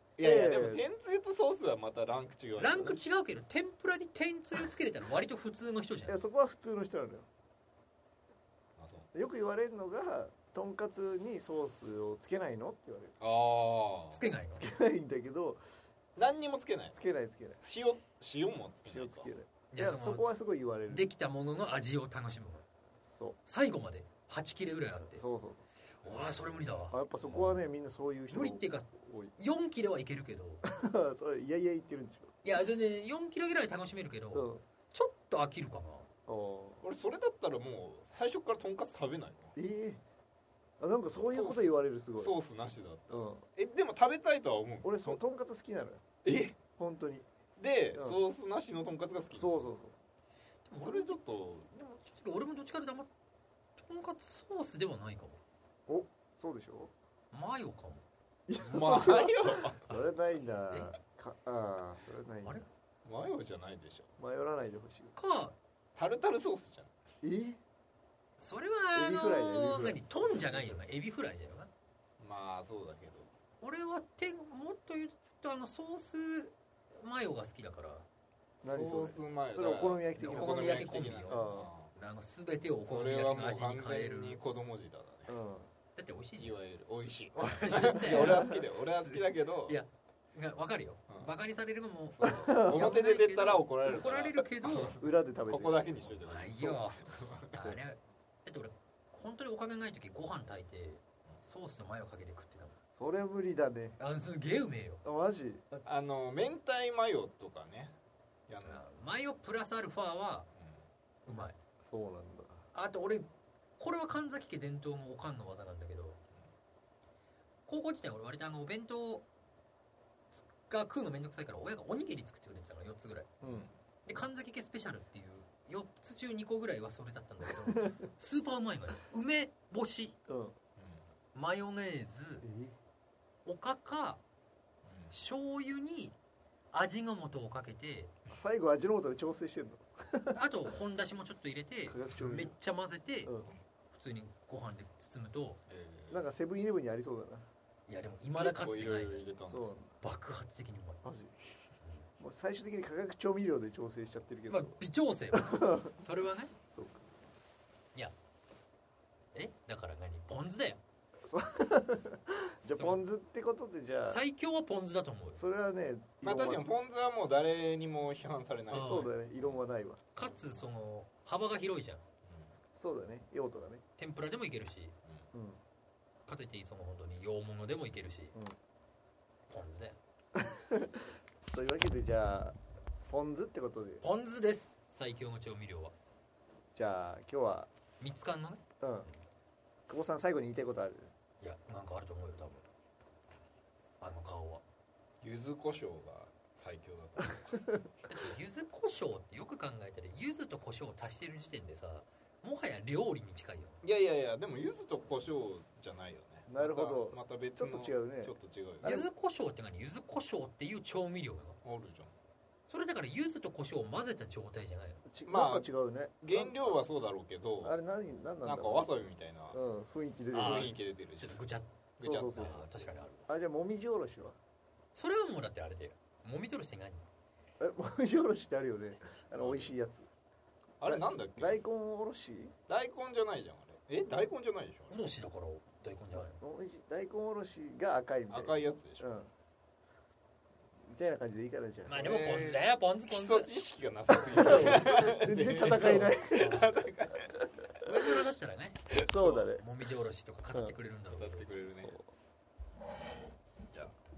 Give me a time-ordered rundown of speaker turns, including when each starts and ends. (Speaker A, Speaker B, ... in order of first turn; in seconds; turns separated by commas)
Speaker A: 0.2-3.0, Speaker B: 0.2-0.9, Speaker C: 2.6-6.2, Speaker B: 6.1-7.3, Speaker A: 8.8-9.1, Speaker B: 9.1-13.2, Speaker A: 13.2-14.2, Speaker C: 14.1-14.7, Speaker B: 14.5-15.6, Speaker A: 16.2-17.0, Speaker B: 16.9-17.6, Speaker A: 17.6-19.3, Speaker B: 18.9-21.1, Speaker C: 19.7-22.6, Speaker B: 23.1-23.4, Speaker C: 23.4-25.2, Speaker B: 25.1-25.7, Speaker C: 26.0-27.7, Speaker B: 26.9-29.3, Speaker C: 28.3-30.6, Speaker B: 30.6-32.4, Speaker C: 32.4-36.1, Speaker B: 34.3-34.6, Speaker B: 36.3-36.8, Speaker A: 36.8-39.5, Speaker B: 39.6-40.0, Speaker B: 40.8-42.4, Speaker A: 41.1-45.2, Speaker B: 43.1-43.5, Speaker B: 44.8-46.0, Speaker A: 46.2-46.6, Speaker B: 46.8-47.3, Speaker A: 47.6-49.7, Speaker B: 49.3-50.0, Speaker C: 50.6-53.1, Speaker A: 50.8-51.7, Speaker C: 53.8-55.4, Speaker B: 55.9-56.9, Speaker C: 57.3-58.0, Speaker B: 58.5-62.6, Speaker A: 58.6-60.0, Speaker A: 63.0-64.1, Speaker B: 64.2-65.2, Speaker C: 65.2-65.6, Speaker A: 66.0-67.0, Speaker B: 67.2-67.6, Speaker C: 68.4-71.7, Speaker B: 69.0-70.0, Speaker A: 70.2-70.8, Speaker A: 72.2-73.3, Speaker C: 73.6-78.1, Speaker B: 78.6-81.7, Speaker A: 78.6-81.9, Speaker C: 80.2-84.4, Speaker A: 82.8-85.4, Speaker B: 85.3-85.7, Speaker C: 86.0-86.6, Speaker A: 86.4-89.8, Speaker C: 87.3-95.0, Speaker B: 88.1-88.6, Speaker A: 92.2-97.7, Speaker B: 92.2-92.9, Speaker B: 94.9-96.2, Speaker C: 96.2-102.8, Speaker B: 103.0-104.0, Speaker C: 104.0-105.0, Speaker B: 105.0-105.7, Speaker A: 105.8-107.9, Speaker A: 108.5-108.8, Speaker C: 108.6-110.5, Speaker C: 111.3-111.6, Speaker B: 111.8-112.6, Speaker C: 112.7-113.3, Speaker C: 113.8-116.2, Speaker C: 117.7-119.3, Speaker C: 120.3-123.3, Speaker B: 123.4-123.7, Speaker A: 123.4-123.7, Speaker C: 124.1-130.2, Speaker B: 130.3-130.6, Speaker A: 130.8-131.0, Speaker C: 131.3-132.5, Speaker B: 132.4-132.8, Speaker C: 133.5-134.2, Speaker A: 134.8-135.1, Speaker C: 135.1-136.2, Speaker C: 136.7-138.1, Speaker B: 138.3-140.4, Speaker C: 140.3-145.6, Speaker B: 141.9-142.5, Speaker B: 143.2-143.5, Speaker A: 145.7-146.3, Speaker B: 146.1-147.5, Speaker C: 147.9-149.3, Speaker A: 148.3-149.7, Speaker B: 149.5-150.0, Speaker C: 150.0-151.0, Speaker B: 151.0-151.3, Speaker C: 151.8-152.1, Speaker B: 152.2-154.8, Speaker C: 154.5-156.5, Speaker B: 155.3-155.9, Speaker B: 156.7-157.1, Speaker C: 159.3-160.8, Speaker B: 161.3-164.2, Speaker C: 162.7-163.0, Speaker C: 164.1-165.4, Speaker B: 165.4-166.7, Speaker A: 166.2-169.6, Speaker C: 168.7-169.1, Speaker B: 168.7-170.0, Speaker C: 170.2-172.0, Speaker A: 170.2-170.7, Speaker A: 172.3-172.5, Speaker B: 172.8-173.8, Speaker C: 174.0-175.0, Speaker B: 175.3-175.6, Speaker C: 176.3-178.3, Speaker C: 179.5-180.0, Speaker B: 180.4-182.6, Speaker B: 183.1-184.0, Speaker C: 184.0-185.9, Speaker B: 186.8-187.7, Speaker C: 188.0-189.2, Speaker B: 188.8-189.1, Speaker B: 189.9-191.1, Speaker C: 191.4-192.7, Speaker C: 194.0-194.6, Speaker A: 195.2-197.7, Speaker C: 198.1-203.8, Speaker A: 203.8-208.9, Speaker B: 206.5-209.1, Speaker C: 208.8-211.6, Speaker A: 211.6-212.1, Speaker C: 212.7-215.0, Speaker B: 215.1-216.8, Speaker A: 215.3-215.7, Speaker A: 216.2-217.8, Speaker B: 217.6-218.9, Speaker A: 218.4-219.6, Speaker B: 219.5-220.8, Speaker C: 220.3-223.3, Speaker A: 220.4-221.4, Speaker A: 222.0-222.9, Speaker B: 222.0-222.7, Speaker B: 223.3-224.4, Speaker C: 224.9-227.1, Speaker B: 227.6-230.1, Speaker A: 229.3-229.8, Speaker A: 230.8-231.6, Speaker B: 230.8-232.5, Speaker A: 232.7-235.0, Speaker C: 234.9-236.4, Speaker B: 236.1-239.3, Speaker A: 238.3-239.1, Speaker B: 240.9-242.1, Speaker C: 241.9-243.5, Speaker A: 241.9-247.4, Speaker B: 244.2-246.6, Speaker C: 244.3-244.8, Speaker C: 245.6-246.7, Speaker C: 247.8-248.9, Speaker A: 248.9-249.5, Speaker B: 249.0-249.7, Speaker C: 249.4-251.5, Speaker A: 251.1-252.0, Speaker B: 251.7-252.1, Speaker A: 253.7-253.9